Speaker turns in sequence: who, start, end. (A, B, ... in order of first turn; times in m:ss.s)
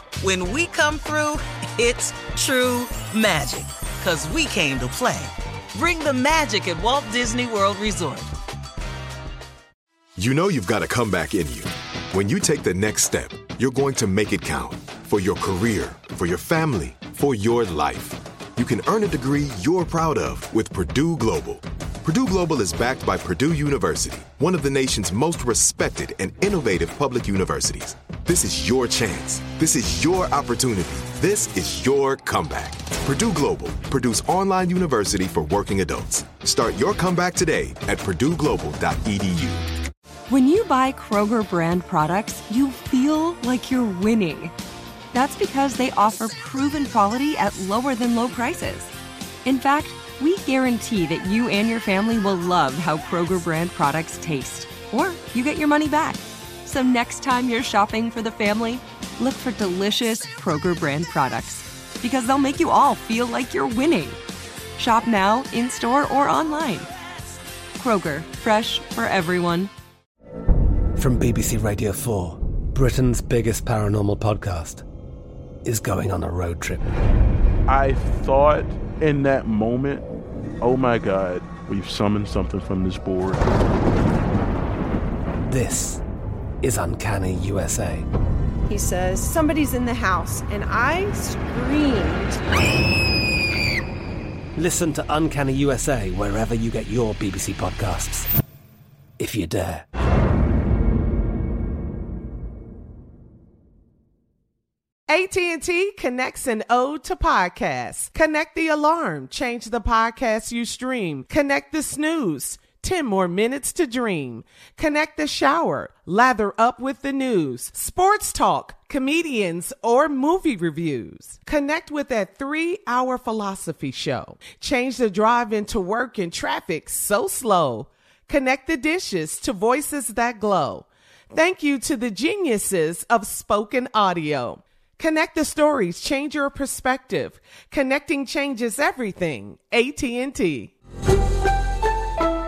0:00.2-0:08.3 A
0:10.2-0:39.6 B
0:40.3-0:44.5 C
0:45.1-0:48.9 C
0:49.4-1:04.2 C
1:04.8-1:06.9 C
1:07.8-1:09.7 C
1:11.0-1:14.8 D
1:15.7-1:16.9 D
1:17.7-1:20.0 E
1:20.6-1:23.5 E
1:25.5-1:26.0 D
1:26.6-1:28.0 D
1:28.7-1:32.4 F
1:34.6-1:38.2 D
1:39.2-1:39.8 D
1:45.1-2:20.7 G